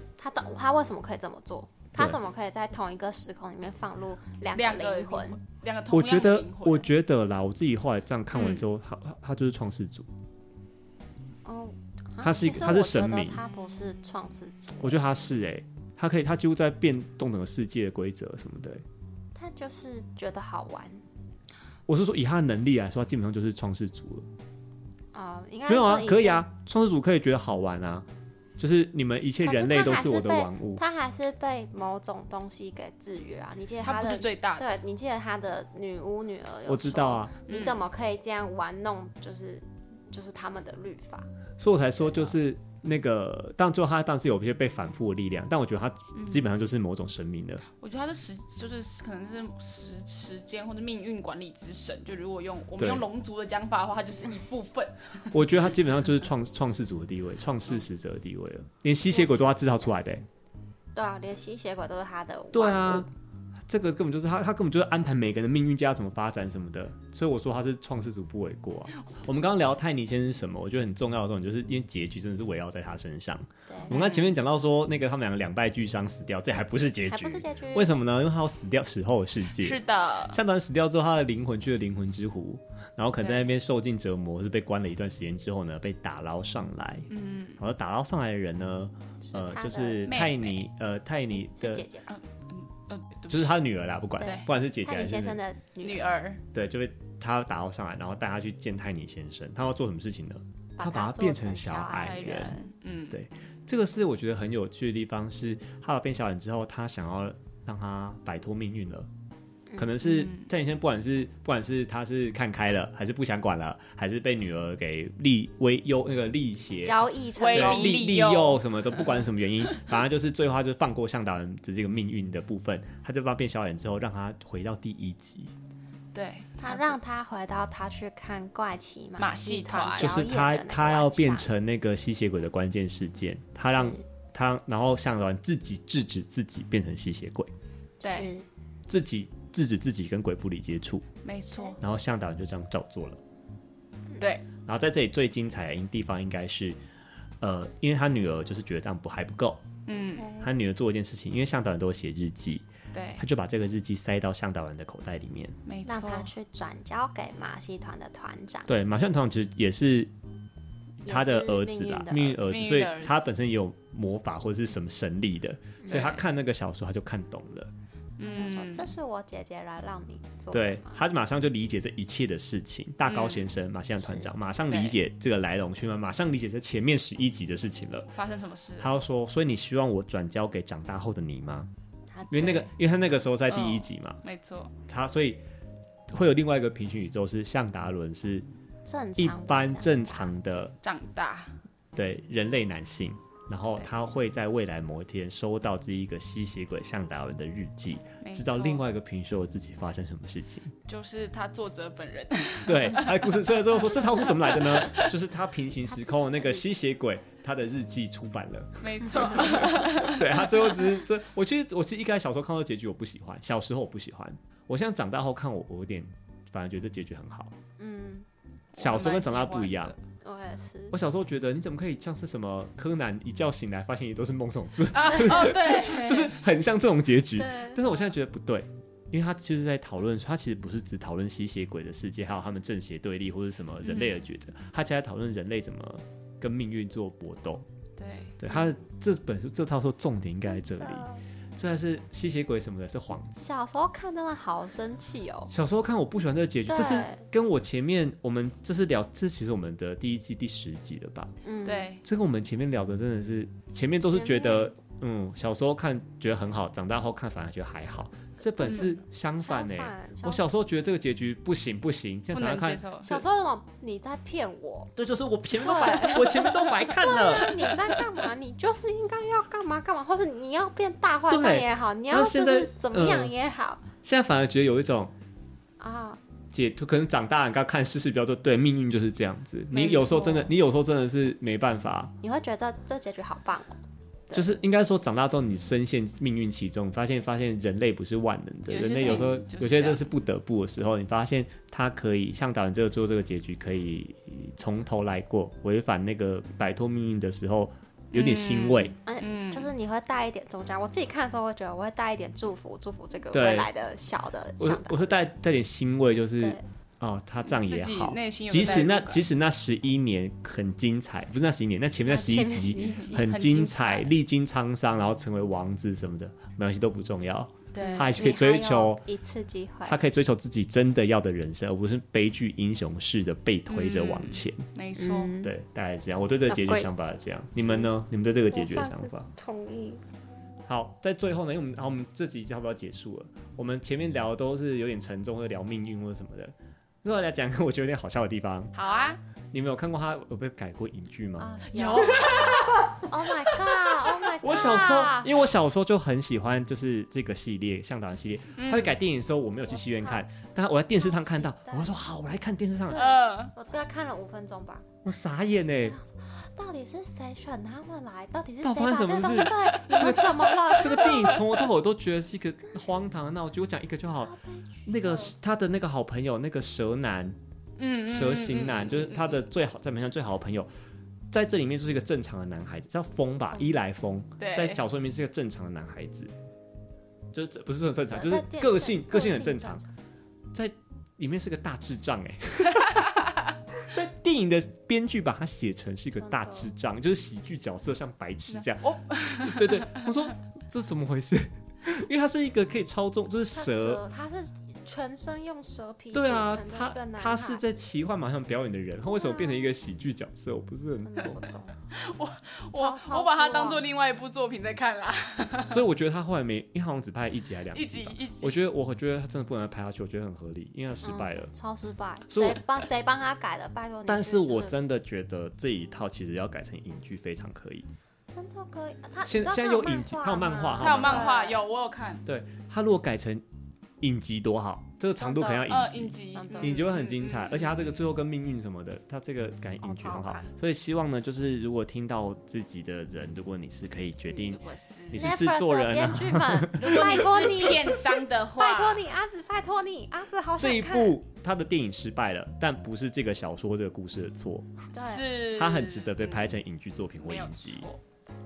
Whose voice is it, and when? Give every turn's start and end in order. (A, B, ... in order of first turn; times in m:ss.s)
0:00.2-0:05.4 A
0:04.5-0:06.9 B
0:05.9-0:10.1 C
0:08.3-0:08.6 B
0:11.4-0:14.9 A
0:12.2-0:13.4 C
0:14.8-0:18.8 C
0:19.3-0:21.0 A
0:21.9-0:24.3 C
0:25.1-0:26.4 A
0:25.7-0:28.0 C
0:28.6-0:30.8 C
0:29.4-0:41.3 A
0:33.8-0:34.7 B
0:36.6-0:37.3 C
0:37.5-0:37.8 B
0:41.6-0:47.6 C
0:42.0-0:42.4 A
0:46.1-0:46.4 B
0:47.8-0:55.4 B
0:52.8-0:53.0 C
0:55.3-1:00.2 C
1:00.9-1:03.1 A
1:02.5-1:03.1 C
1:03.7-1:31.8 C
1:13.9-1:14.4 B
1:17.1-1:18.0 A
1:19.5-1:20.4 B
1:23.2-1:23.5 B
1:27.1-1:27.6 B
1:29.2-1:30.0 A
1:30.0-1:30.7 B
1:31.3-1:32.1 A
1:32.1-1:33.6 B
1:33.3-1:35.4 C
1:34.2-1:34.4 B
1:34.2-1:36.1 A
1:35.8-1:36.4 B
1:36.5-1:42.6 C
1:40.8-1:42.6 A
1:42.0-1:43.2 B
1:43.1-1:49.1 C
1:49.8-2:05.5 C
1:50.0-1:50.5 B
1:56.8-1:58.1 A
1:57.4-1:59.1 B
2:06.1-2:07.0 B
2:06.6-2:11.5 A
2:09.2-2:10.1 B
2:10.0-2:17.5 C
2:13.7-2:14.0 A
2:18.0-2:18.4 A
2:18.0-2:18.3 B
2:18.9-2:21.1 C
2:21.2-2:21.8 B
2:21.5-2:21.8 A
2:21.8-2:23.2 C
2:24.2-2:24.4 B
2:24.6-2:26.8 C
2:27.4-2:29.6 C
2:29.9-2:30.3 B
2:30.2-2:30.5 A
2:30.4-2:32.6 C
2:32.9-2:33.2 B
2:33.2-2:35.6 C
2:35.6-2:36.3 B
2:35.8-2:38.7 A
2:38.7-2:40.1 C
2:41.0-2:47.7 C
2:41.0-2:42.4 A
2:42.4-2:43.2 B
2:45.9-2:46.2 B
2:48.2-2:48.9 B
2:48.2-2:51.0 A
2:50.5-2:58.1 C
2:53.1-2:53.5 B
2:54.0-2:54.3 A
2:54.7-2:55.0 B
2:58.2-2:58.9 B
2:58.8-3:01.7 C
3:02.1-3:02.7 A
3:02.3-3:04.2 C
3:03.5-3:04.7 B
3:04.9-3:05.4 C
3:06.1-3:08.4 C
3:08.8-3:10.3 A
3:09.2-3:10.7 C
3:10.8-3:11.6 B
3:11.9-3:20.7 C
3:18.2-3:18.9 B
3:20.8-3:25.1 B
3:22.6-3:37.5 C
3:25.9-3:26.8 A
3:28.8-3:31.0 B
3:37.8-3:38.2 A
3:38.7-3:40.0 B
3:38.8-3:39.9 C
3:40.2-3:41.0 A
3:40.9-3:57.6 C
3:44.9-3:46.4 B
3:47.4-3:47.8 A
3:53.8-3:54.2 B
3:58.0-3:58.4 B
3:58.4-4:03.4 C
4:00.5-4:01.2 A
4:03.4-4:05.5 A
4:05.5-4:11.3 C
4:06.6-4:07.2 A
4:11.4-4:11.9 A
4:11.6-4:12.0 B
4:12.0-4:23.2 C
4:14.0-4:14.7 A
4:18.5-4:20.4 A
4:18.6-4:18.9 B
4:22.3-4:23.2 B
4:23.0-4:24.9 A
4:25.0-4:27.6 C
4:25.6-4:33.8 A
4:25.8-4:28.0 B
4:31.3-4:33.3 C
4:34.0-4:35.1 C
4:35.8-4:36.2 A
4:36.5-4:42.1 C
4:39.7-4:40.5 B
4:39.8-4:40.4 A
4:42.2-4:44.6 A
4:44.3-4:58.9 C
4:48.7-4:50.1 B
4:58.1-4:59.7 B
4:59.0-5:05.0 A
5:03.3-5:03.7 C
5:04.6-5:19.0 C
5:06.4-5:06.7 A
5:07.4-5:09.3 B
5:12.1-5:13.2 A
5:13.0-5:14.1 B
5:17.7-5:20.0 A
5:17.8-5:18.0 B
5:19.8-5:24.6 C
5:23.7-5:25.3 B
5:25.0-5:25.5 A
5:25.4-5:29.3 C
5:26.5-5:26.9 A
5:27.6-5:27.9 A
5:28.5-5:30.0 A
5:30.7-5:38.7 C
5:38.7-5:39.2 B
5:39.5-5:41.5 C
5:41.4-5:45.3 A
5:41.7-5:42.8 B
5:42.2-5:42.7 C
5:44.3-5:53.1 C
5:48.6-5:49.0 B
5:49.7-5:50.3 A
5:50.9-5:52.0 A
5:52.9-5:54.8 A
5:52.9-5:53.5 B
5:55.0-5:56.0 C
5:55.9-6:01.5 A
5:58.6-6:04.3 C
6:00.7-6:01.4 B
6:04.1-6:05.3 A
6:04.8-6:07.4 C
6:07.8-6:09.4 B
6:08.0-6:10.7 C
6:11.3-6:16.3 C
6:14.4-6:14.8 B
6:17.3-6:19.8 C
6:18.1-6:19.9 A
6:20.5-6:23.2 C
6:23.8-6:34.0 C
6:26.2-6:26.7 A
6:28.5-6:30.1 B
6:33.5-6:37.6 A
6:36.1-6:41.5 C
6:39.0-6:39.6 A
6:41.0-6:41.8 A
6:41.9-6:45.8 B
6:42.7-6:43.9 A
6:45.6-6:51.5 C
6:47.7-6:48.6 B
6:51.0-6:54.7 A
6:52.3-6:52.8 C
6:54.0-6:57.9 C
6:58.3-7:01.6 A
6:59.2-7:01.3 C
7:00.8-7:02.2 B
7:02.2-7:03.4 C
7:04.0-7:17.9 C
7:05.2-7:05.8 A
7:05.7-7:08.0 B
7:06.3-7:06.8 A
7:09.8-7:10.5 A
7:14.3-7:15.3 B
7:15.2-7:21.2 A
7:16.8-7:19.1 B
7:20.6-7:27.9 C
7:24.9-7:25.3 A
7:24.9-7:26.5 B
7:27.2-7:28.0 B